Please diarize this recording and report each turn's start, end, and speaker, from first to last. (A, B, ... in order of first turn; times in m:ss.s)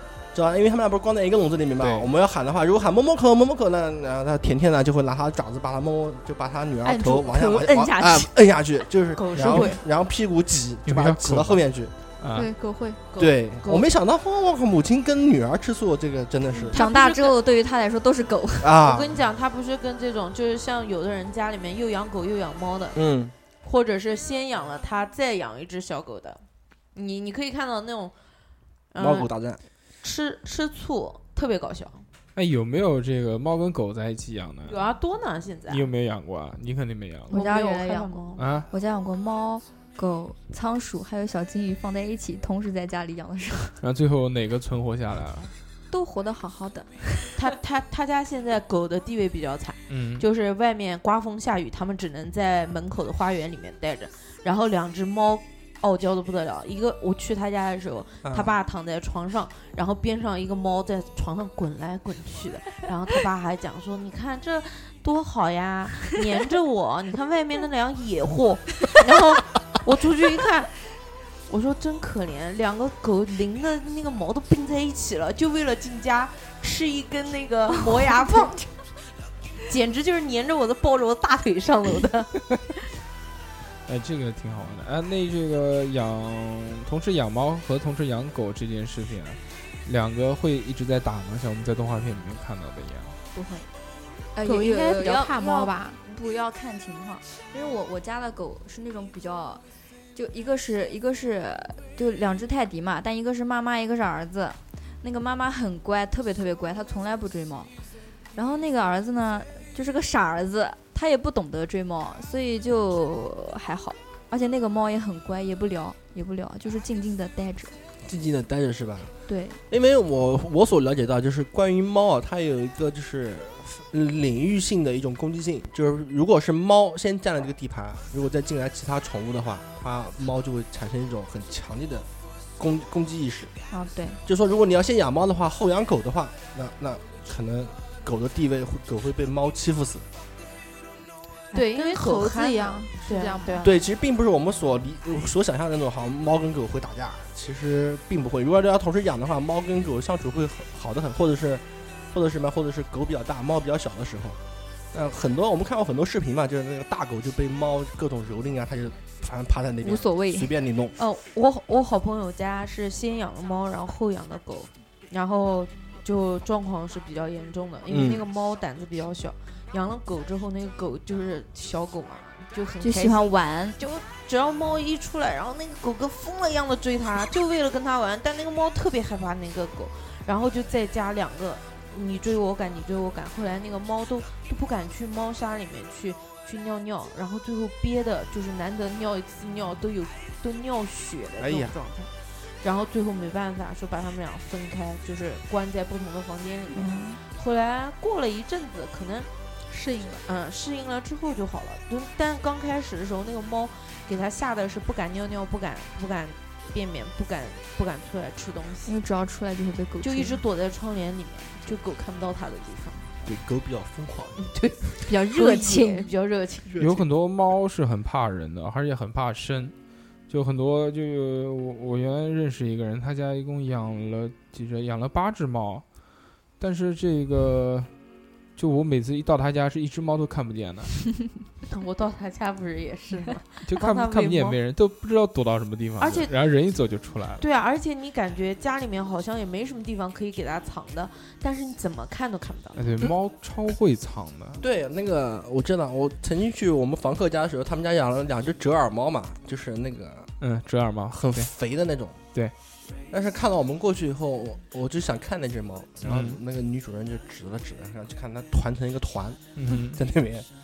0:00.3-0:11.9 A
0:01.8-0:02.1 B
0:06.8-0:07.6 C
0:07.5-0:08.3 D
0:09.1-0:09.8 E
0:10.8-0:11.6 B
0:12.2-0:12.5 B
0:12.3-0:13.0 C
0:13.1-0:13.9 E
0:13.2-0:16.8 A
0:16.7-0:18.8 D
0:16.7-0:17.3 E
0:18.6-0:19.1 A
0:18.8-0:23.0 E
0:22.9-0:23.3 A
0:23.6-0:26.4 E
0:26.9-0:28.1 E
0:28.9-0:29.3 E
0:29.0-0:29.6 A
0:30.0-0:32.0 E
0:32.3-0:34.8 B
0:34.7-0:35.9 E
0:35.7-0:37.3 B
0:37.3-0:38.4 E
0:37.3-0:43.8 D
0:38.4-0:38.7 B
0:43.8-0:45.5 B
0:45.9-0:47.3 D
0:47.4-1:10.9 E
0:49.9-0:50.2 B
0:58.2-0:58.5 A
1:11.5-1:18.7 E
1:19.6-1:22.4 E
1:23.9-1:33.2 B
1:33.3-1:33.7 D
1:34.4-1:39.6 D
1:34.4-1:36.0 C
1:40.1-1:47.7 D
1:48.3-1:57.7 D
1:58.0-1:59.1 A
1:59.3-1:59.6 D
1:59.7-2:13.5 A
2:13.7-2:14.2 D
2:14.2-2:20.1 A
2:21.5-2:23.7 C
2:21.5-2:23.7 E
2:23.6-2:34.4 A
2:34.9-2:40.9 A
2:39.8-2:40.5 D
2:41.0-3:19.3 E
2:47.9-2:48.2 A
2:52.8-2:53.8 D
3:11.4-3:11.8 A
3:16.7-3:17.2 D
3:19.7-3:20.2 C
3:20.2-3:28.9 E
3:28.8-3:30.4 D
3:30.0-3:33.1 E
3:33.2-3:34.4 A
3:34.4-3:37.0 E
3:35.0-3:36.1 D
3:36.7-3:37.0 A
3:36.8-3:39.7 B
3:40.3-3:45.8 B
3:46.6-3:47.9 B
3:48.6-3:51.2 B
3:51.7-3:54.6 E
3:53.6-3:57.4 B
3:56.0-3:56.3 E
3:57.4-4:02.9 E
4:02.8-4:04.6 B
4:04.6-4:10.3 A
4:10.4-4:11.5 B
4:11.1-4:12.2 A
4:13.1-4:20.5 A
4:16.0-4:16.4 B
4:19.6-4:20.0 B